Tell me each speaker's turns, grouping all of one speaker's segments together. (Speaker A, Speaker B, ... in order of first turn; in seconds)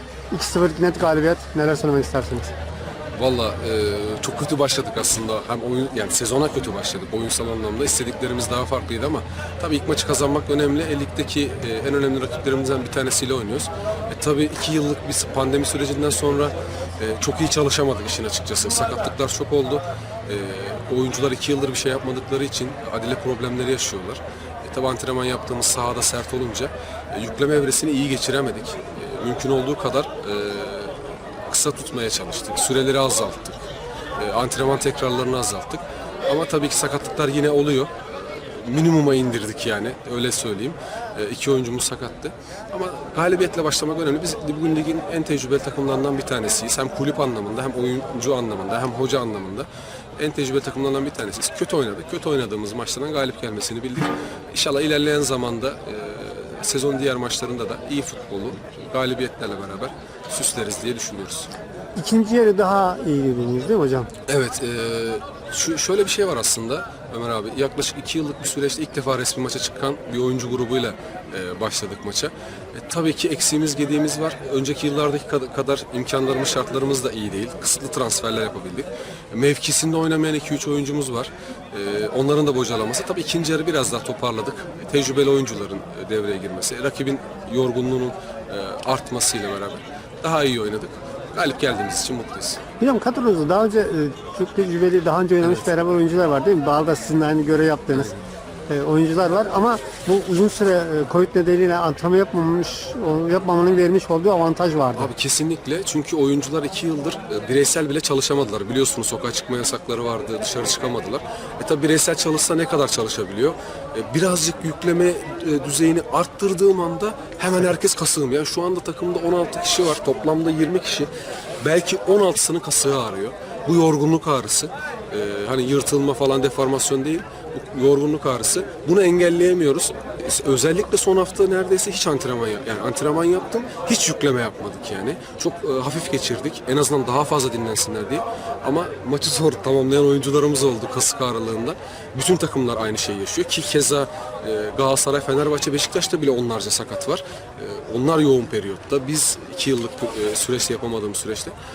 Speaker A: 0.3-2.5, 62.0-64.1, 92.8-98.2, 98.7-105.1
Speaker B: 3.2-33.6, 34.2-61.5, 64.3-92.6, 95.4-95.7, 105.0-121.1, 121.6-151.5